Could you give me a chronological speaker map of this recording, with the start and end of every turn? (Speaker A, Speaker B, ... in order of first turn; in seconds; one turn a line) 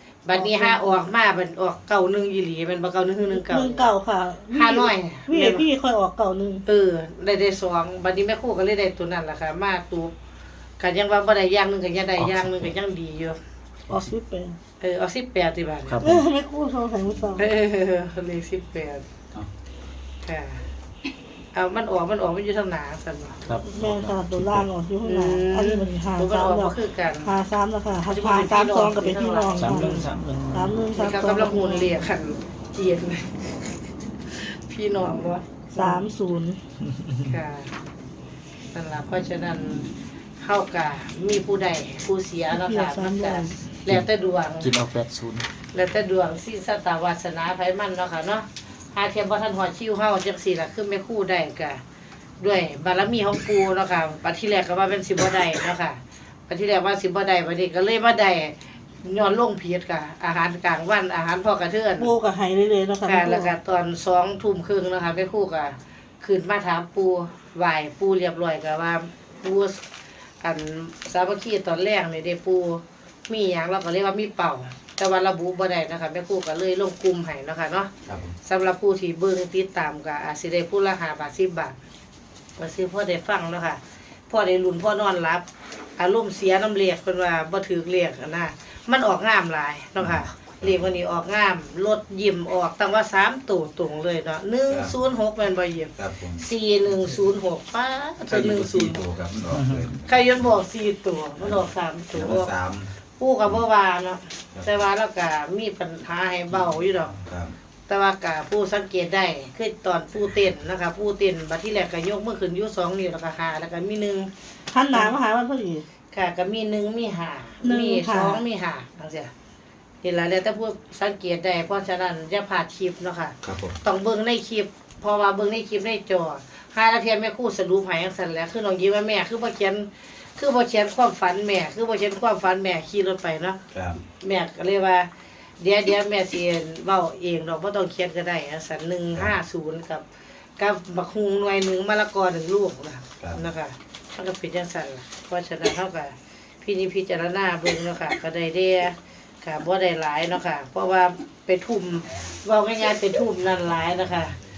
Speaker A: 0.2-3.9
Speaker B: 0.3-1.0
Speaker B: 3.2-6.6
Speaker A: 4.5-5.7
Speaker A: 6.7-10.1
Speaker A: 10.8-13.4
Speaker C: 12.2-12.7
Speaker B: 13.9-14.6
Speaker A: 14.8-16.0
Speaker C: 15.9-16.2
Speaker B: 16.0-17.5
Speaker A: 17.4-19.0
Speaker A: 20.2-20.6
Speaker A: 21.5-23.4
Speaker B: 23.6-31.9
Speaker D: 23.8-24.2
Speaker A: 25.0-27.3
Speaker A: 28.1-30.0
Speaker C: 29.5-30.9
Speaker A: 30.9-33.6
Speaker A: 34.3-36.0
Speaker B: 35.8-36.6
Speaker A: 37.2-37.7
Speaker A: 38.7-39.9
Speaker A: 40.4-44.7
Speaker B: 42.5-43.5
Speaker C: 44.6-45.5
Speaker A: 45.7-51.8
Speaker A: 52.4-62.1
Speaker B: 62.0-63.5
Speaker A: 63.0-69.8
Speaker A: 70.4-77.9
Speaker D: 78.0-78.3
Speaker A: 78.4-81.8
Speaker A: 82.6-85.4
Speaker A: 86.0-99.0
Speaker D: 90.0-90.9
Speaker D: 94.7-95.0
Speaker D: 96.0-96.4
Speaker D: 98.2-100.5
Speaker C: 99.5-99.9
Speaker A: 100.0-102.5
Speaker D: 101.4-102.9
Speaker A: 103.2-107.2
Speaker D: 104.5-104.8
Speaker D: 106.5-107.5
Speaker A: 107.9-114.3
Speaker B: 114.7-115.8
Speaker A: 116.1-119.3
Speaker B: 117.6-118.4
Speaker A: 120.0-133.6
Speaker D: 123.4-123.8
Speaker D: 133.7-134.0
Speaker A: 134.2-135.1
Speaker A: 135.6-140.0
Speaker A: 140.6-154.3
Speaker D: 143.2-143.4